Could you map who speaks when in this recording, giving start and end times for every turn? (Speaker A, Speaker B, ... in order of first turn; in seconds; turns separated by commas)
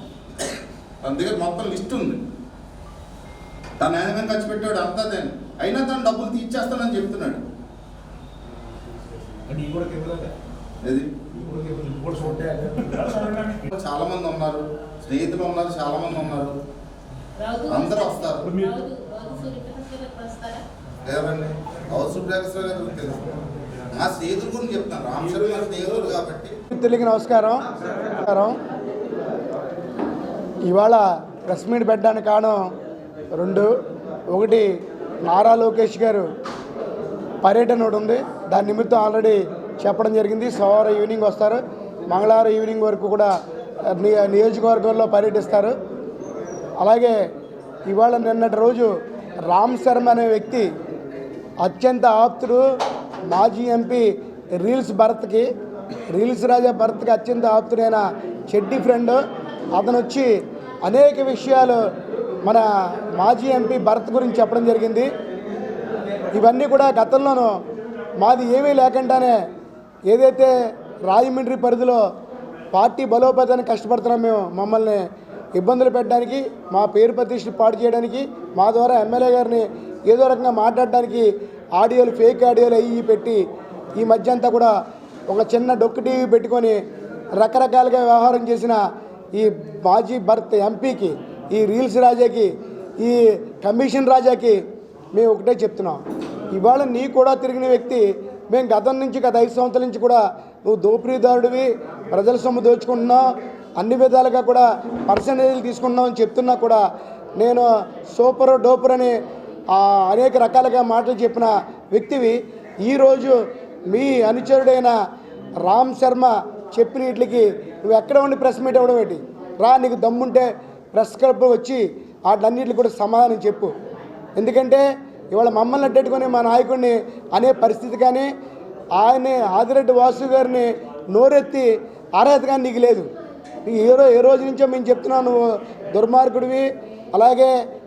Speaker A: 0.4-2.2, Speaker A: 3.8-7.4, Speaker B: 9.5-10.3, Speaker A: 10.8-11.1, Speaker B: 11.5-13.6, Speaker A: 13.7-16.6, Speaker B: 17.4-17.7, Speaker A: 17.7-18.6, Speaker B: 18.6-20.6, Speaker A: 21.1-23.3, Speaker A: 23.9-26.6, Speaker C: 26.7-28.6, Speaker C: 30.7-32.7, Speaker C: 33.3-33.7, Speaker C: 34.3-34.7, Speaker C: 35.3-36.3, Speaker C: 37.4-43.3, Speaker C: 43.9-45.8, Speaker C: 46.8-47.1, Speaker C: 47.9-48.9, Speaker C: 49.5-50.7, Speaker C: 51.6-52.6, Speaker C: 53.3-54.1, Speaker C: 54.6-55.5, Speaker C: 56.1-59.2, Speaker C: 59.8-60.3, Speaker C: 60.9-61.8, Speaker C: 63.2-65.1, Speaker C: 66.3-67.6, Speaker C: 68.2-69.4, Speaker C: 70.1-70.5, Speaker C: 71.1-72.0, Speaker C: 72.7-75.0, Speaker C: 75.6-83.4, Speaker C: 84.0-84.7, Speaker C: 85.3-86.8, Speaker C: 87.4-88.8, Speaker C: 89.3-94.6, Speaker C: 95.2-96.0, Speaker C: 96.5-103.3, Speaker C: 103.8-106.8, Speaker C: 107.4-109.1, Speaker C: 109.7-113.4, Speaker C: 113.9-115.0, Speaker C: 115.7-123.7, Speaker C: 124.4-128.3, Speaker C: 129.0-133.1, Speaker C: 133.7-135.4, Speaker C: 135.9-137.5